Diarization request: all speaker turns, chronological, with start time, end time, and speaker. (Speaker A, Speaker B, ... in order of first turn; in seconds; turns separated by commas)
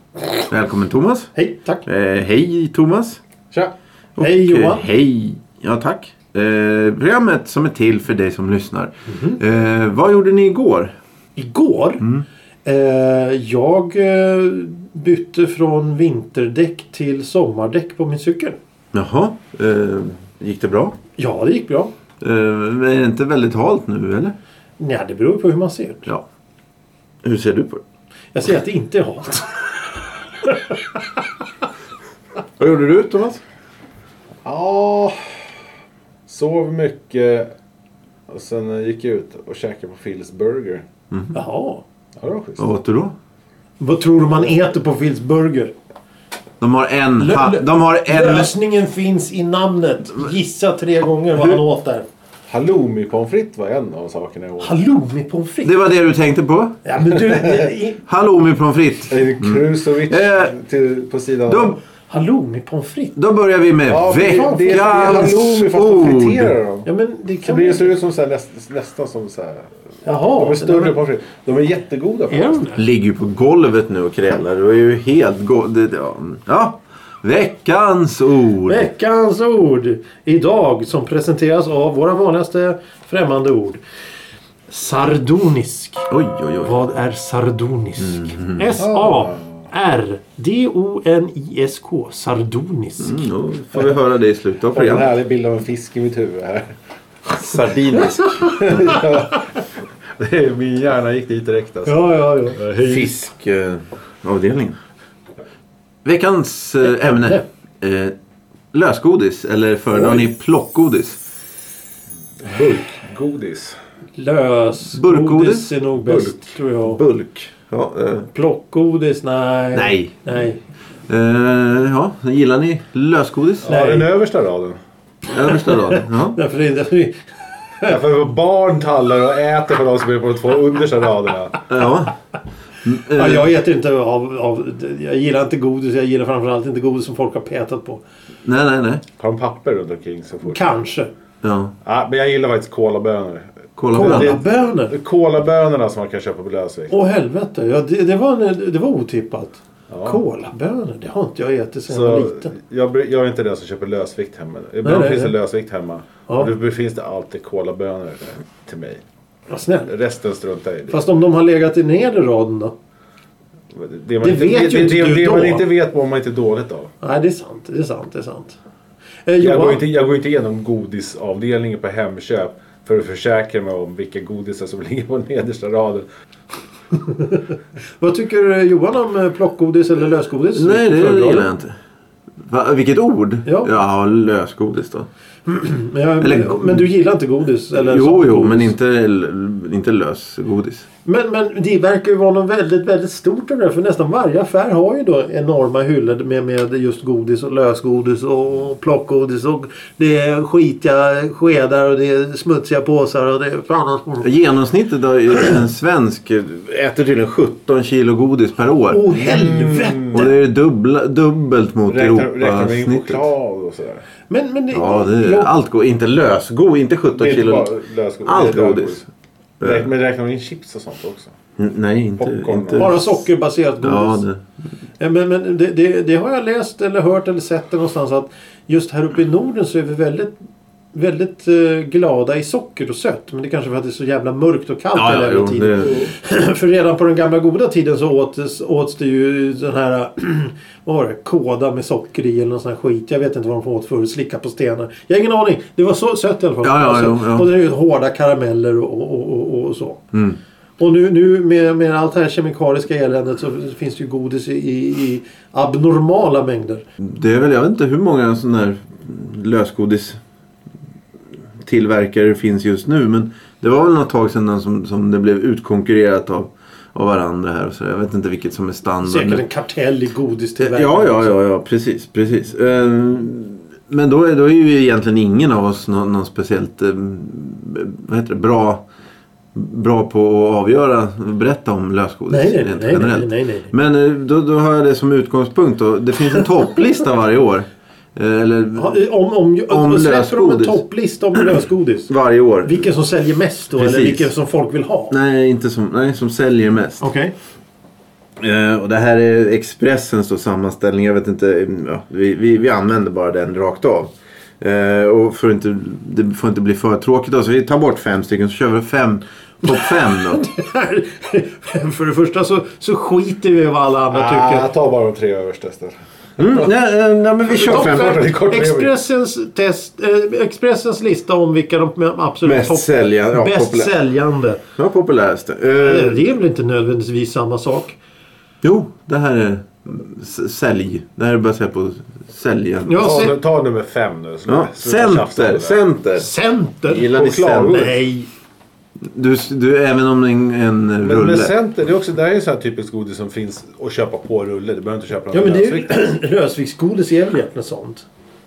Speaker A: 0.5-1.3, Speaker B: 1.3-1.8, Speaker A: 1.9-3.2, Speaker B: 3.5-4.8, Speaker A: 4.2-10.9, Speaker B: 9.1-9.4, Speaker B: 11.3-12.1, Speaker B: 12.6-18.6, Speaker A: 18.9-21.0, Speaker B: 21.2-21.9, Speaker A: 22.2-24.3, Speaker B: 24.8-26.1, Speaker A: 27.2-27.8, Speaker B: 28.3-29.8, Speaker B: 30.4-30.8, Speaker A: 32.6-33.4, Speaker C: 34.4-35.3, Speaker C: 36.3-37.5, Speaker C: 38.3-40.8, Speaker B: 41.3-41.8, Speaker C: 42.2-42.6, Speaker A: 42.6-43.1, Speaker B: 43.8-45.7, Speaker A: 46.6-48.5, Speaker B: 47.2-52.1, Speaker C: 52.5-54.7, Speaker B: 54.6-55.8, Speaker A: 55.6-56.8, Speaker B: 56.8-58.0, Speaker A: 58.0-60.5, Speaker C: 59.1-61.8, Speaker A: 61.5-61.8, Speaker B: 62.1-63.2, Speaker A: 63.1-66.6, Speaker C: 63.9-66.9, Speaker B: 64.1-65.6, Speaker B: 66.8-67.9, Speaker C: 67.4-69.7, Speaker B: 70.0-70.9, Speaker C: 70.2-72.5, Speaker B: 72.3-72.8, Speaker A: 72.8-78.9, Speaker B: 78.7-83.8, Speaker B: 84.7-86.1, Speaker A: 86.1-86.9, Speaker B: 86.6-93.2, Speaker A: 88.0-88.7, Speaker C: 88.8-89.7, Speaker A: 93.0-95.1, Speaker C: 94.7-96.7, Speaker A: 97.2-99.0, Speaker B: 98.2-99.3, Speaker C: 98.6-99.4, Speaker C: 100.2-102.0, Speaker B: 101.8-102.6, Speaker C: 102.5-103.2, Speaker A: 102.8-104.8, Speaker A: 106.0-108.1, Speaker B: 107.0-107.4, Speaker A: 108.7-111.2, Speaker C: 112.4-113.8, Speaker B: 114.2-117.0, Speaker A: 114.9-116.1, Speaker A: 116.9-118.3, Speaker B: 118.3-120.6, Speaker A: 119.7-120.2, Speaker A: 121.1-123.7, Speaker C: 123.6-124.8, Speaker B: 123.7-124.1, Speaker A: 125.3-126.4, Speaker B: 125.5-127.2, Speaker C: 127.8-131.6, Speaker A: 131.7-132.1, Speaker A: 132.8-133.5, Speaker B: 133.1-138.0, Speaker A: 138.4-139.0, Speaker C: 139.2-140.6, Speaker B: 140.4-141.1, Speaker A: 141.4-141.7, Speaker C: 141.8-146.9, Speaker A: 143.8-144.4, Speaker B: 143.9-144.9, Speaker B: 146.9-152.5, Speaker C: 149.9-150.2, Speaker C: 151.9-159.0, Speaker B: 154.8-155.3, Speaker B: 159.5-159.9, Speaker C: 159.8-161.0, Speaker B: 160.9-162.7, Speaker C: 163.7-166.9, Speaker B: 164.2-165.6, Speaker B: 167.0-168.6, Speaker B: 169.2-169.8, Speaker C: 169.4-176.1, Speaker B: 176.9-181.5, Speaker A: 180.5-181.7, Speaker A: 182.4-185.1, Speaker B: 183.4-183.7, Speaker B: 185.4-188.7, Speaker A: 186.2-186.9, Speaker A: 187.7-190.8, Speaker B: 191.0-204.3, Speaker A: 204.2-209.1, Speaker B: 208.9-210.3, Speaker C: 209.1-210.2, Speaker A: 210.1-213.2, Speaker C: 211.9-214.0, Speaker B: 214.3-215.5, Speaker A: 214.7-217.7, Speaker C: 217.1-219.0, Speaker A: 218.2-219.0, Speaker A: 219.6-219.9, Speaker C: 219.6-221.3, Speaker A: 221.6-223.1, Speaker C: 222.2-223.0, Speaker B: 222.8-224.2, Speaker A: 223.8-224.4, Speaker B: 225.0-230.3, Speaker B: 230.9-250.0, Speaker A: 234.9-236.1, Speaker A: 246.6-247.5, Speaker A: 250.1-250.4, Speaker B: 250.8-256.8, Speaker A: 257.0-260.2, Speaker A: 261.6-269.4, Speaker B: 269.0-271.4, Speaker A: 270.6-278.8, Speaker A: 279.5-289.0, Speaker B: 282.3-283.7, Speaker B: 288.7-292.1, Speaker A: 289.7-290.8, Speaker A: 292.1-292.8, Speaker B: 292.6-295.1, Speaker A: 293.8-294.3, Speaker A: 295.1-297.0, Speaker B: 297.0-297.3, Speaker A: 298.4-310.4, Speaker B: 309.7-314.7, Speaker C: 314.1-316.7, Speaker A: 316.4-318.2, Speaker C: 317.5-318.9, Speaker B: 317.5-324.6, Speaker A: 322.4-323.9, Speaker A: 324.8-326.3, Speaker B: 325.8-328.0, Speaker A: 328.6-333.2, Speaker B: 332.9-333.3, Speaker C: 333.0-335.8, Speaker A: 334.5-336.3, Speaker B: 336.2-338.3, Speaker A: 336.9-337.9, Speaker C: 337.0-337.9, Speaker A: 339.0-341.5, Speaker C: 341.0-346.0, Speaker B: 345.3-348.0